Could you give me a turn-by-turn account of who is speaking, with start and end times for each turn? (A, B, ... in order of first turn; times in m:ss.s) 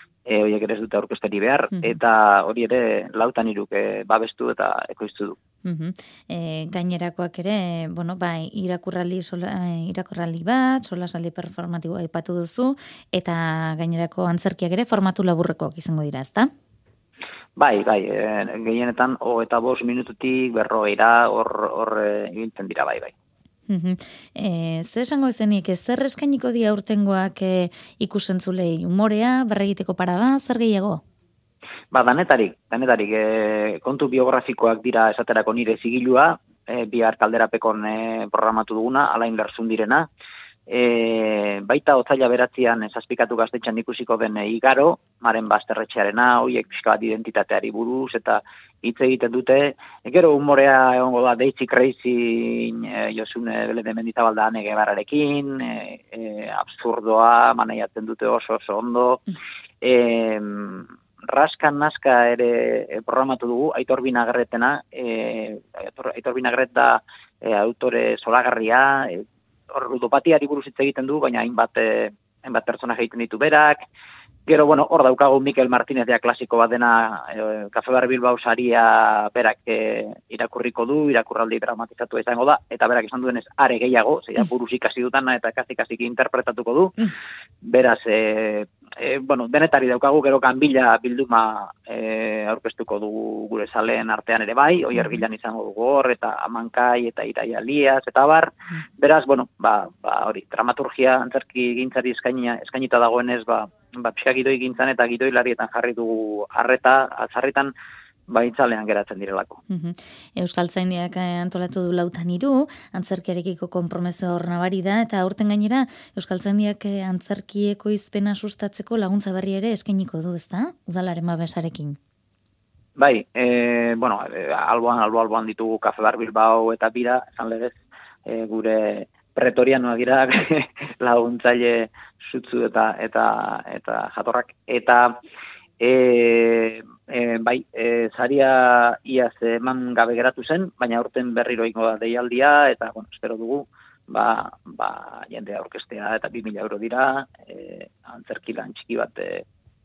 0:00.3-0:05.4 A
0:05.6-0:16.5 B
0:17.6-0:23.1 A
0:23.7-0:31.0 B
0:31.9-0:40.1 A
0:40.7-0:59.2 A
0:59.8-1:13.8 A
1:14.5-1:26.9 A
1:27.6-1:47.7 A
1:35.0-1:35.2 B
1:48.3-1:49.6 A
1:49.7-2:02.0 B
2:03.0-2:15.2 A
2:15.8-2:29.4 A